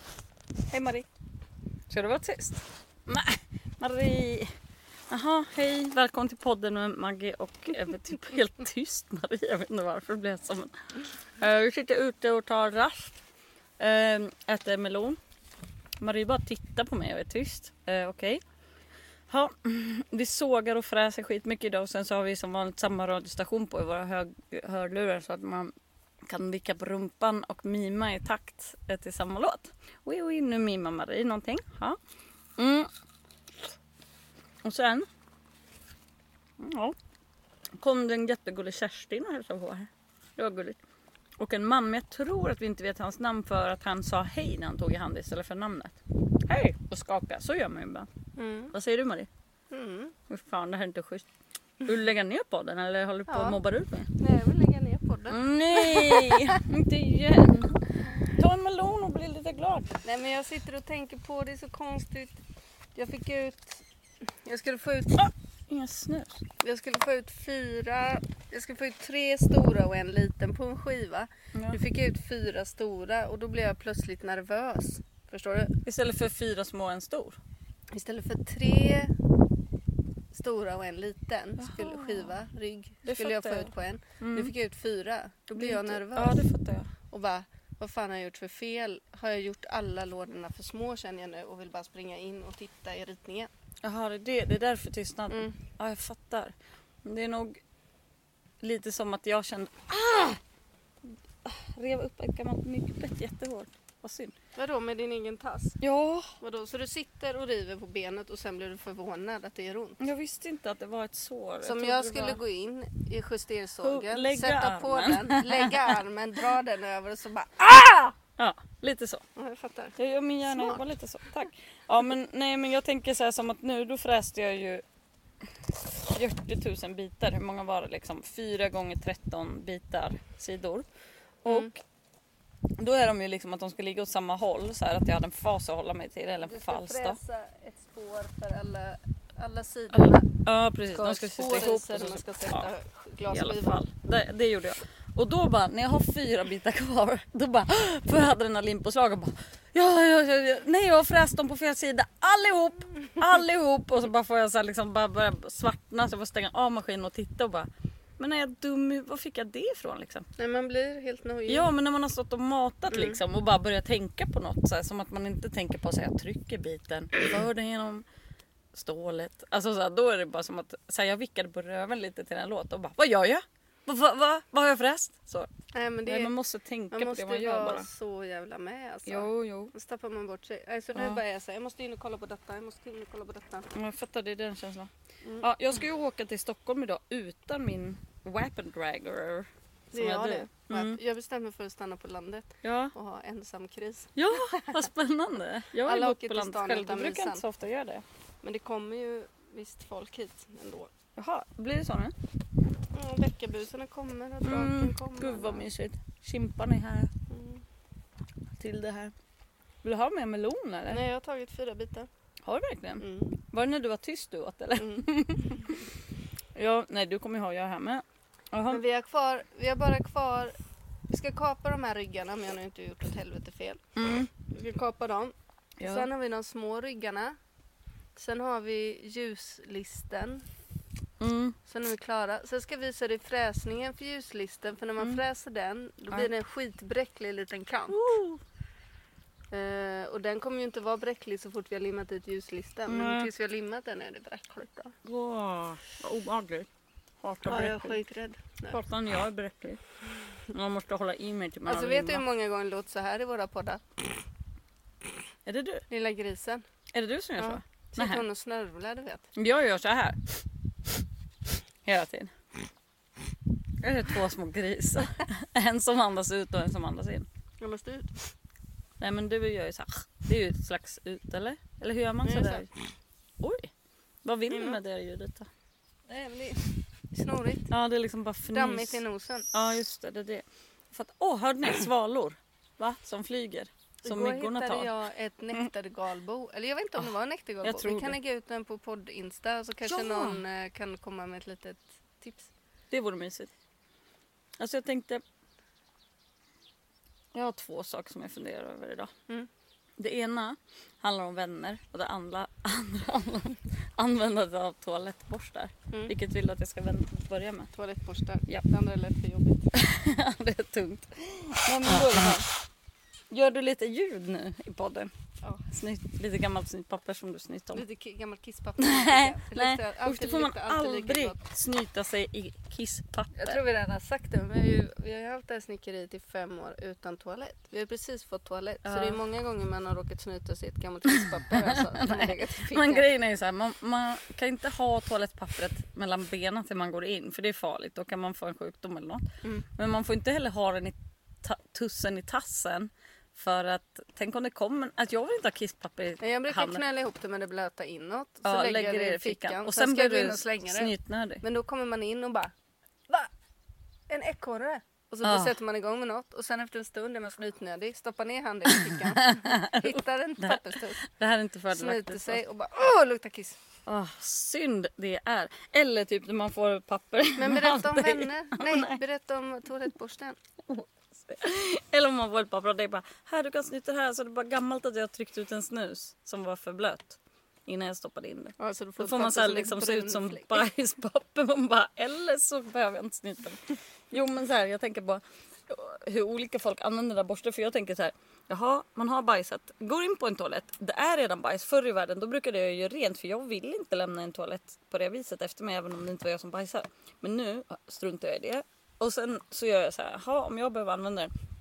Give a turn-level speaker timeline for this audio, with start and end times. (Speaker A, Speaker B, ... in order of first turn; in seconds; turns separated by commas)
Speaker A: 0.7-1.1, Speaker A: 1.9-4.5, Speaker A: 5.1-10.8, Speaker A: 11.4-13.2, Speaker A: 13.8-15.2, Speaker A: 16.0-18.4, Speaker A: 19.3-25.7, Speaker A: 26.3-32.0, Speaker A: 32.6-32.9, Speaker A: 34.6-35.1, Speaker A: 36.6-37.0, Speaker A: 37.8-40.8, Speaker A: 41.4-48.1, Speaker B: 48.4-48.7, Speaker A: 48.7-49.3, Speaker B: 49.7-50.1, Speaker A: 50.3-51.3, Speaker A: 51.8-54.1, Speaker B: 53.3-53.6, Speaker B: 54.2-56.6, Speaker A: 55.3-59.9, Speaker B: 60.0-62.4, Speaker B: 63.0-63.8, Speaker B: 64.5-65.2, Speaker A: 65.2-66.4, Speaker B: 66.6-75.7, Speaker A: 71.5-71.8, Speaker A: 75.8-77.4, Speaker B: 77.9-79.1, Speaker B: 80.3-86.4, Speaker A: 81.6-82.3, Speaker A: 83.0-84.5, Speaker A: 85.6-86.9, Speaker B: 87.1-93.5, Speaker A: 93.8-97.6, Speaker B: 95.3-95.6, Speaker A: 98.6-100.4, Speaker A: 101.4-104.3, Speaker B: 104.6-105.8, Speaker A: 105.8-106.3, Speaker B: 106.4-110.0, Speaker A: 110.0-112.4, Speaker B: 111.6-118.2, Speaker A: 113.8-116.0, Speaker A: 118.4-119.2, Speaker B: 119.4-120.8, Speaker A: 120.0-124.8, Speaker A: 126.1-130.8, Speaker A: 131.4-131.8, Speaker B: 131.5-131.7, Speaker A: 132.8-137.2, Speaker B: 136.4-140.3, Speaker A: 139.9-142.7, Speaker B: 140.9-143.8, Speaker A: 143.3-157.7, Speaker A: 158.2-160.3, Speaker B: 160.4-161.7, Speaker A: 161.5-168.1, Speaker B: 162.9-163.2, Speaker A: 168.7-175.5, Speaker B: 175.7-176.3, Speaker A: 176.1-177.9, Speaker B: 176.9-183.7, Speaker A: 179.1-179.7, Speaker A: 180.9-181.2, Speaker A: 183.7-191.0, Speaker B: 185.2-185.5, Speaker B: 189.9-194.9, Speaker A: 192.6-192.9, Speaker A: 194.2-198.1, Speaker B: 195.8-197.4, Speaker B: 198.4-200.9, Speaker A: 201.2-202.1, Speaker B: 202.9-205.7, Speaker A: 204.4-207.1, Speaker B: 207.3-207.6, Speaker A: 208.6-209.1, Speaker A: 209.8-211.0, Speaker B: 210.9-212.1, Speaker A: 212.4-215.9, Speaker B: 213.0-213.4, Speaker B: 214.8-215.6, Speaker A: 216.6-218.8, Speaker B: 218.7-220.6, Speaker B: 221.1-223.8, Speaker A: 224.0-224.3, Speaker B: 224.5-227.3, Speaker A: 225.8-226.1, Speaker B: 228.2-230.4, Speaker A: 231.2-231.6, Speaker B: 231.7-238.0, Speaker A: 237.9-238.4, Speaker B: 239.5-244.9, Speaker A: 242.9-243.3, Speaker A: 245.0-246.7, Speaker A: 247.2-248.0, Speaker B: 247.4-248.8, Speaker A: 248.7-249.8, Speaker A: 250.5-252.2, Speaker B: 251.7-253.8, Speaker A: 255.5-255.8, Speaker B: 255.9-256.6, Speaker A: 256.9-258.2, Speaker B: 257.4-259.2, Speaker A: 259.4-260.2, Speaker A: 261.9-262.3, Speaker A: 263.8-267.3, Speaker B: 267.6-268.3, Speaker A: 269.0-272.7, Speaker B: 272.2-272.6, Speaker A: 273.4-273.7, Speaker A: 274.2-275.5, Speaker B: 274.5-274.8, Speaker B: 276.1-277.7, Speaker A: 277.7-284.9, Speaker B: 278.5-279.5, Speaker B: 284.0-292.5, Speaker A: 287.6-288.2, Speaker A: 289.9-290.4, Speaker A: 292.9-293.5, Speaker A: 294.6-295.2, Speaker A: 297.3-299.1, Speaker A: 300.0-307.7, Speaker B: 307.7-309.6, Speaker A: 309.7-312.4, Speaker B: 311.7-312.5, Speaker A: 313.3-315.1, Speaker A: 315.7-317.8, Speaker B: 317.7-321.4, Speaker A: 318.8-323.6, Speaker B: 323.4-333.1, Speaker A: 328.8-329.2, Speaker A: 331.6-339.2, Speaker A: 339.8-346.8, Speaker B: 346.2-352.5, Speaker A: 348.4-351.4, Speaker B: 354.1-361.0, Speaker A: 355.2-355.6, Speaker A: 358.9-362.4, Speaker B: 361.7-363.6, Speaker A: 363.9-369.0, Speaker B: 367.4-370.4, Speaker A: 370.7-401.3, Speaker B: 378.6-380.7